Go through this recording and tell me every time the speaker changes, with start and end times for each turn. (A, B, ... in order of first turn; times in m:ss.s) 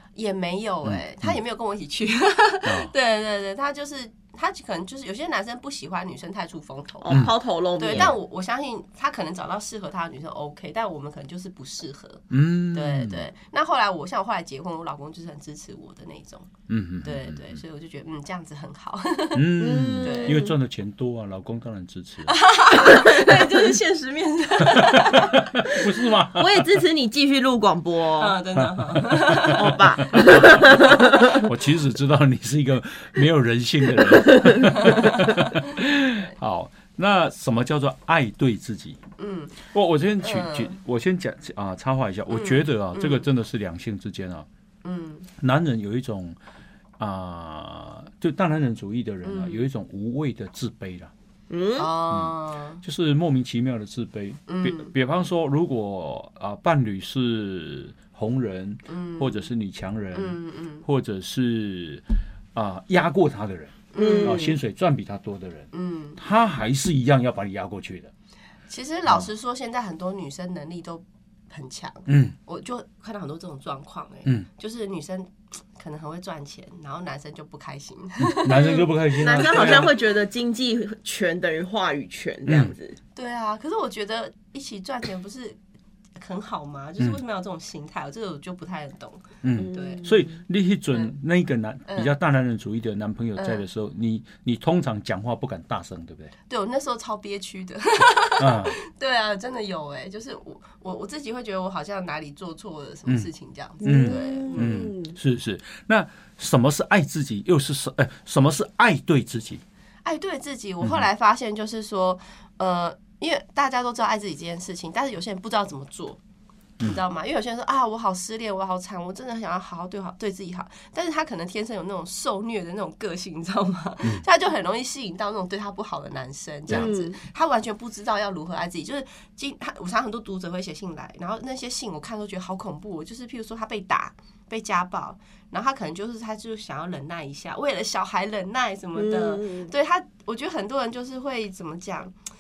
0:00.2-0:07.3 A
0:00.8-0:01.4 B
0:02.6-0:02.9 B
0:07.0-0:08.2 C
0:07.8-0:16.5 A
0:12.3-0:13.3 B
0:16.7-0:17.6 B
0:17.0-0:20.4 A
0:19.3-0:22.3 B
0:19.6-0:20.5 C
0:22.3-0:25.8 A
0:22.9-0:23.6 C
0:24.7-0:26.6 B
0:26.3-0:28.4 C
0:28.2-0:29.8 A
0:28.6-0:39.0 B
0:29.5-0:31.4 C
0:39.2-0:39.6 A
0:39.7-0:44.5 B
0:40.2-0:40.8 A
0:42.3-0:43.2 A
0:44.8-0:45.3 A
0:45.4-0:46.4 B
0:47.0-0:51.1 B
0:49.2-0:49.6 A
0:51.5-0:51.9 C
0:51.8-0:52.8 A
0:52.1-1:02.0 B
0:54.5-0:54.9 A
0:58.9-0:59.5 A
1:00.1-1:00.8 A
1:02.6-1:08.1 B
1:03.9-1:04.6 A
1:04.0-1:04.6 C
1:05.7-1:06.2 A
1:08.7-1:19.9 A
1:12.1-1:12.4 B
1:18.2-1:19.9 B
1:19.2-1:23.0 C
1:22.5-1:22.7 B
1:23.2-1:25.6 A
1:26.2-1:30.2 A
1:29.4-1:36.3 B
1:29.6-1:30.3 C
1:31.9-1:32.2 A
1:33.4-1:33.6 A
1:36.5-1:44.9 A
1:38.4-1:38.8 B
1:43.8-1:45.2 C
1:43.8-1:49.6 B
1:50.0-1:56.2 A
1:56.8-2:22.1 A
2:06.7-2:07.2 C
2:19.0-2:19.7 C